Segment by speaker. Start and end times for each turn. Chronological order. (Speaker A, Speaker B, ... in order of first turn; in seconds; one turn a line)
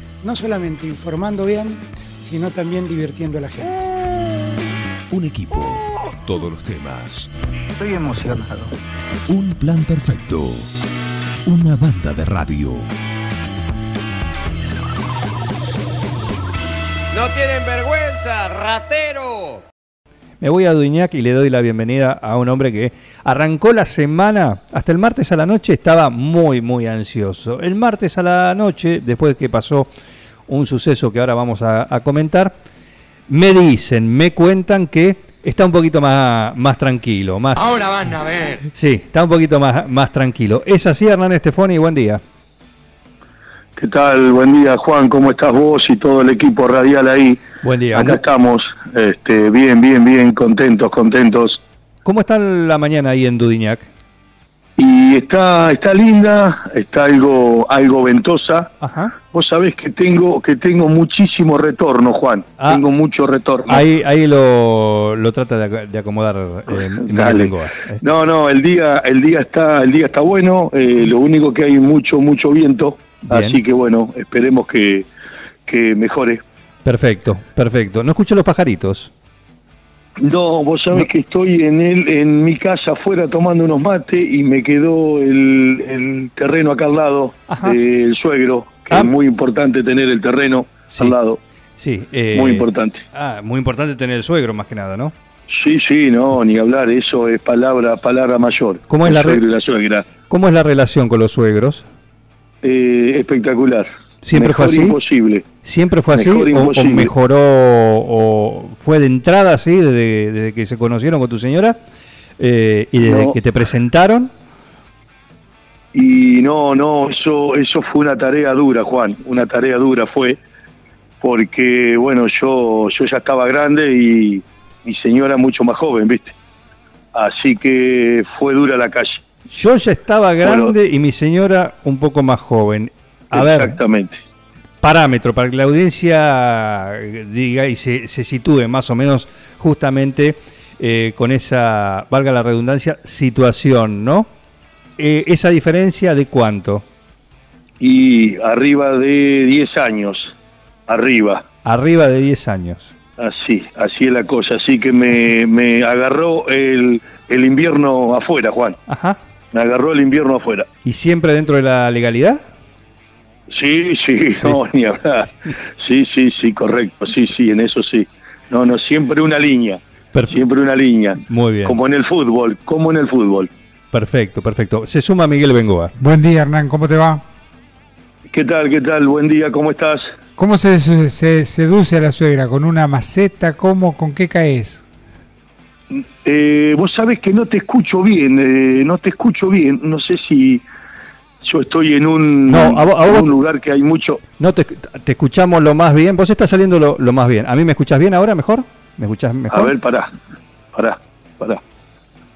Speaker A: 0.2-3.9
Speaker B: 5.1-7.3
Speaker B: 9.3-10.7
Speaker B: 11.5-12.9
Speaker C: 17.1-19.6
Speaker D: 20.4-29.9
Speaker D: 30.5-32.5
Speaker D: 33.3-37.9
Speaker D: 38.6-42.2
Speaker E: 43.8-47.4
Speaker D: 47.6-48.2
Speaker E: 47.9-51.6
Speaker D: 52.0-53.9
Speaker E: 54.8-58.7
Speaker D: 58.8-59.1
Speaker E: 59.3-63.8
Speaker D: 63.7-68.0
Speaker E: 67.0-75.1
Speaker D: 73.3-73.6
Speaker E: 75.7-76.4
Speaker D: 76.8-79.1
Speaker E: 80.2-91.4
Speaker D: 87.5-87.8
Speaker D: 91.8-95.2
Speaker E: 92.3-93.0
Speaker E: 95.5-100.1
Speaker D: 98.9-99.4
Speaker D: 100.3-101.9
Speaker E: 102.6-105.5
Speaker D: 104.2-105.0
Speaker D: 105.6-111.8
Speaker E: 106.1-107.1
Speaker D: 112.4-114.3
Speaker E: 113.0-113.4
Speaker E: 115.9-120.4
Speaker E: 121.2-126.3
Speaker E: 127.1-129.2
Speaker D: 129.5-133.8
Speaker E: 130.4-130.7
Speaker E: 133.3-134.2
Speaker D: 134.8-144.3
Speaker D: 145.0-146.8
Speaker E: 147.8-150.3
Speaker E: 150.9-151.5
Speaker D: 151.6-152.9
Speaker E: 153.2-158.8
Speaker D: 158.9-159.2
Speaker E: 159.5-160.7
Speaker D: 160.8-162.4
Speaker E: 163.5-173.5
Speaker D: 171.2-171.8
Speaker D: 173.9-175.9
Speaker F: 176.0-177.2
Speaker E: 178.3-180.1
Speaker F: 180.4-184.8
Speaker E: 185.9-190.6
Speaker E: 191.4-194.2
Speaker D: 192.5-193.4
Speaker D: 194.4-199.7
Speaker E: 199.5-200.1
Speaker E: 200.7-201.6